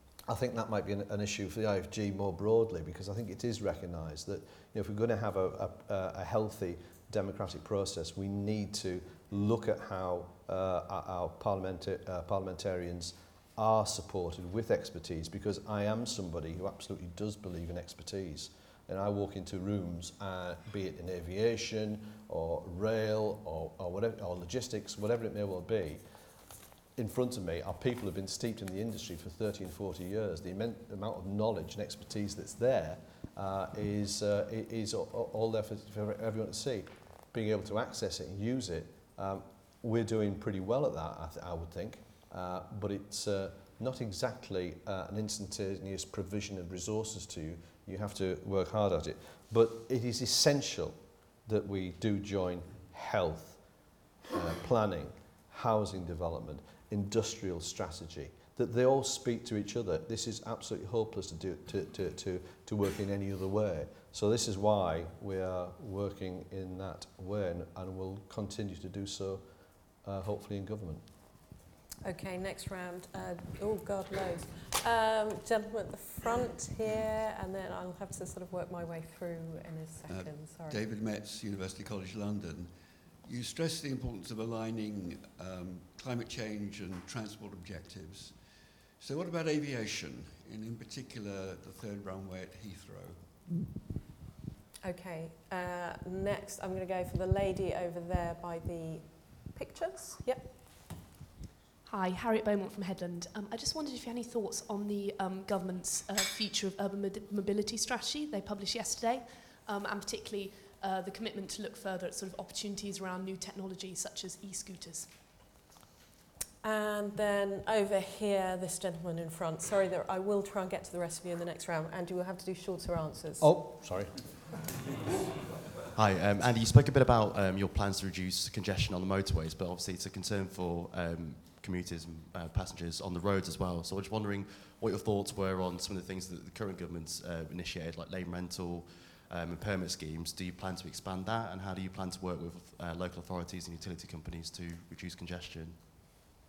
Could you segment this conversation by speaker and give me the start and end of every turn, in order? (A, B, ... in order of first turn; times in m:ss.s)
0:00.3-0:26.0 A
0:27.0-0:53.6 A
0:54.3-1:09.4 A
1:10.0-1:11.0 A
1:12.0-1:20.8 B
1:20.1-1:33.2 C
1:34.8-1:40.5 B
1:41.8-1:55.1 D
1:56.6-2:03.5 B
2:03.4-2:04.3 A
2:05.9-2:25.8 E